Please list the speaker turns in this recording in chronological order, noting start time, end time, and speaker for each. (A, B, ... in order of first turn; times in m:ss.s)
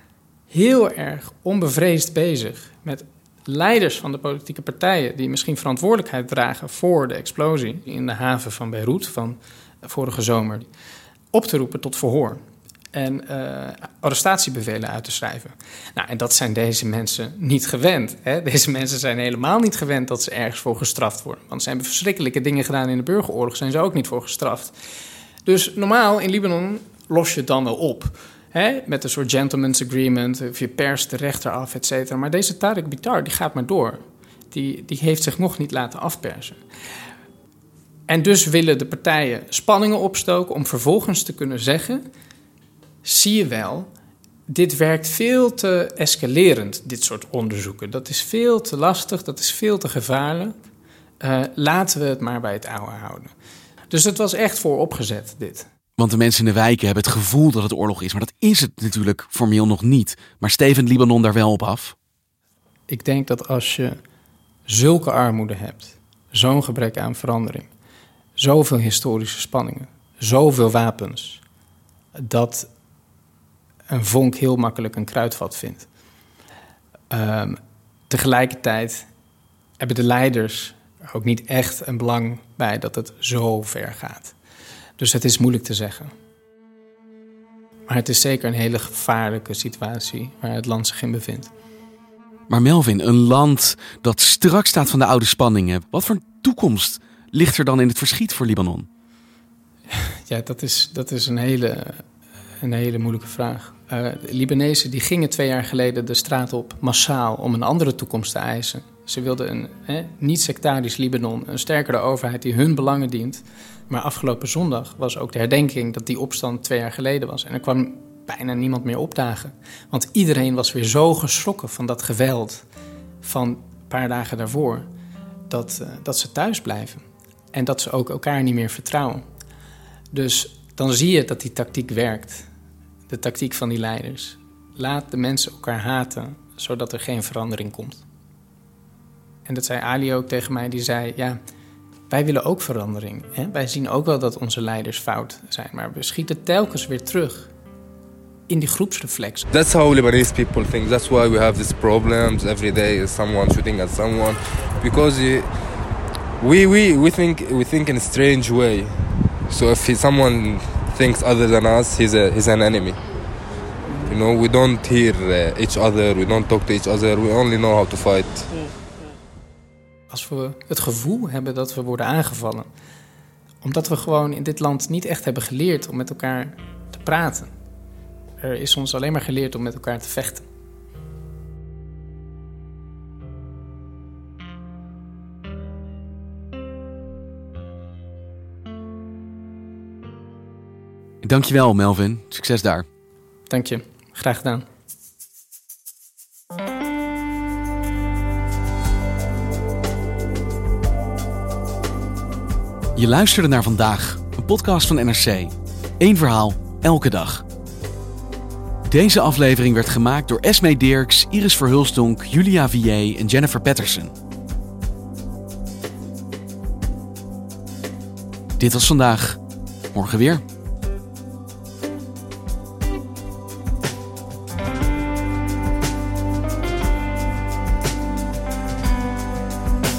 0:00.5-0:10.7 A
0:11.3-0:12.4 A
0:12.9-0:24.8 A
0:25.4-0:36.6 A
0:38.1-0:42.0 A
0:43.0-0:43.9 A
0:44.5-0:50.6 A
0:51.2-0:53.3 A
0:53.9-0:55.7 A
0:56.0-1:01.9 B
1:02.9-1:04.0 A
1:04.7-1:07.7 A
1:08.4-1:11.4 A
1:12.2-1:12.7 A
1:13.9-1:15.9 A
1:17.1-1:19.1 A
1:19.8-1:24.3 A
1:25.0-1:26.1 A
1:27.9-1:31.5 A
1:32.5-1:38.9 B
1:39.9-1:42.0 A
1:42.6-2:02.6 A
2:03.2-2:04.9 A
2:05.5-2:09.2 A
2:10.1-2:12.5 A
2:13.1-2:18.0 A
2:19.4-2:21.4 A
2:22.1-2:27.5 A
2:28.5-2:29.5 A
2:29.5-2:35.5 C
2:36.4-2:38.9 C
2:39.5-2:43.0 C
2:44.0-2:48.5 C
2:50.1-2:52.7 A
2:53.6-2:57.5 A
2:58.4-3:00.4 A
3:11.2-3:12.8 B
3:13.5-3:14.6 A
3:23.0-3:27.4 B
3:28.9-3:34.1 B
3:38.6-3:39.4 B
3:39.9-3:40.4 B